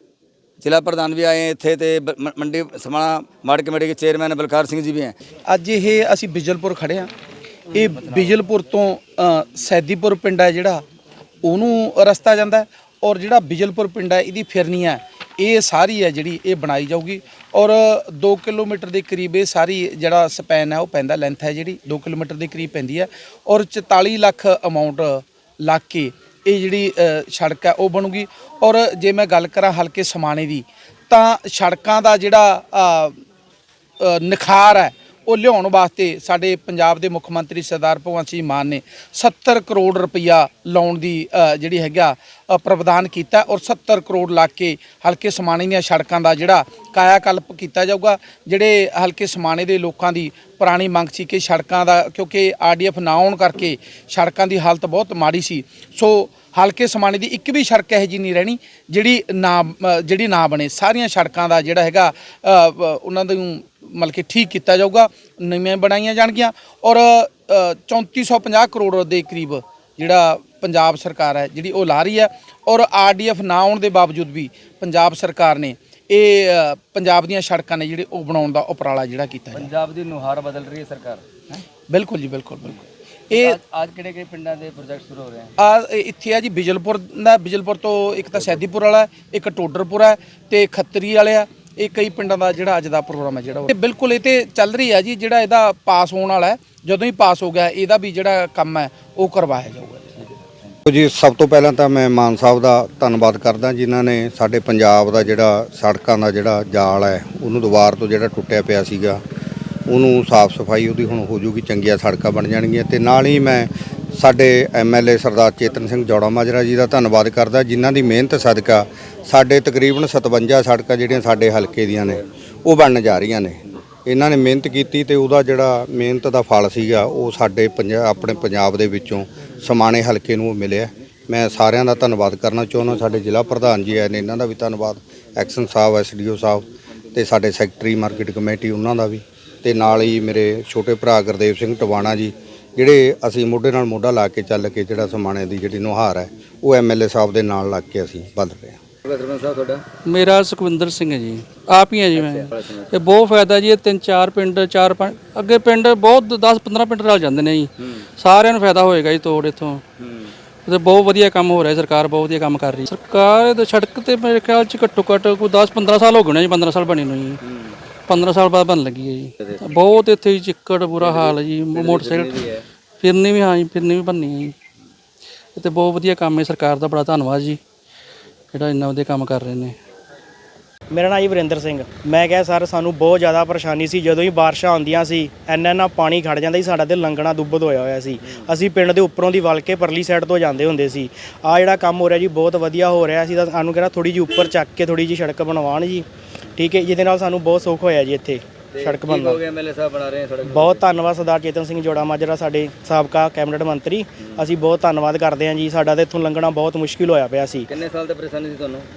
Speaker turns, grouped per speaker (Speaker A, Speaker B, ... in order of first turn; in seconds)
Speaker A: 0.6-5.2, 79.5-81.2, 83.3-85.5, 149.0-149.8, 152.2-152.9, 160.0-160.3, 167.5-167.8, 171.0-172.6, 198.7-200.8, 207.7-208.9
Speaker B: 5.5-7.1, 7.7-10.8, 11.4-33.2, 34.0-79.7, 81.9-82.8, 83.3-83.6, 85.6-100.2
Speaker C: 100.9-109.2, 109.9-148.8
Speaker D: 150.1-159.8, 160.7-167.4, 168.1-172.5, 173.0-174.5, 175.6-177.6, 178.5-179.8
Speaker E: 180.9-199.4, 200.5-207.7